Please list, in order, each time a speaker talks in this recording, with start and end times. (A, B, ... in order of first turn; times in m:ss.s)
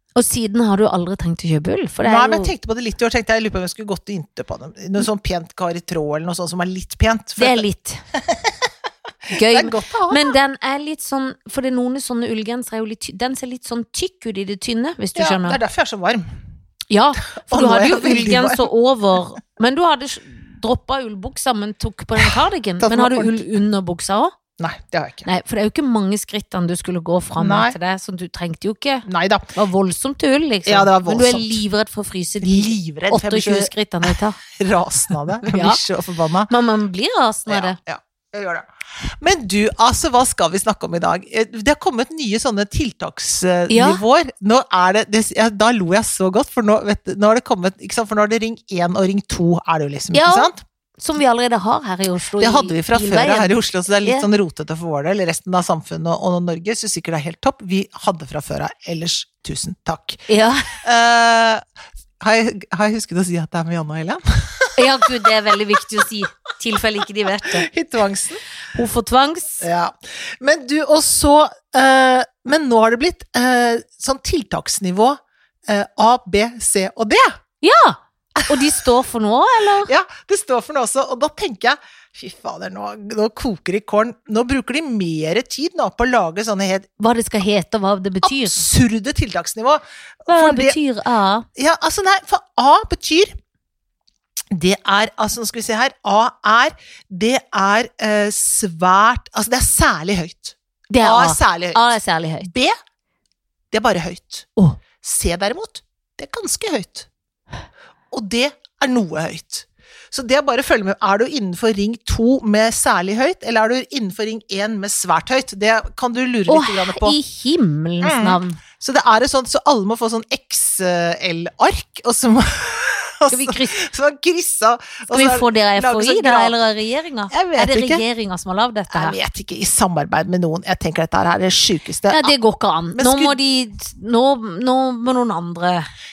0:00.2-0:02.5 A
0:02.0-0:08.7 B
0:07.4-0:08.0 A
0:09.2-0:10.3 B
0:09.3-0:15.6 A
0:15.2-0:16.4 B
0:16.9-0:24.3 A
0:17.4-0:18.7 B
0:22.2-0:23.4 B
0:24.6-0:25.3 B
0:25.2-0:34.4 A
0:27.4-0:27.7 B
0:29.0-0:29.5 B
0:30.6-0:31.6 B
0:32.4-0:36.5 B
0:35.4-0:35.8 A
0:36.5-0:37.8 A
0:37.5-0:50.6 B
0:43.7-0:44.0 A
0:50.1-0:54.3 A
0:52.4-1:01.6 B
1:00.3-1:00.7 A
1:02.2-1:05.8 B
1:04.8-1:07.7 A
1:07.4-1:08.4 B
1:08.7-1:09.6 A
1:09.6-1:17.4 B
1:17.6-1:19.9 A
1:18.4-1:18.8 B
1:19.8-1:26.9 B
1:27.0-1:28.6 A
1:28.2-1:30.8 B
1:30.3-1:31.5 A
1:31.6-1:33.3 B
1:34.5-1:42.7 B
1:40.9-1:42.5 A
1:43.7-1:47.1 B
1:48.1-1:57.2 B
1:56.5-1:58.6 A
1:58.0-2:06.5 B
2:03.3-2:03.8 A
2:05.1-2:09.2 A
2:07.3-2:08.0 B
2:08.9-2:12.3 B
2:12.1-2:15.9 A
2:12.9-2:13.4 B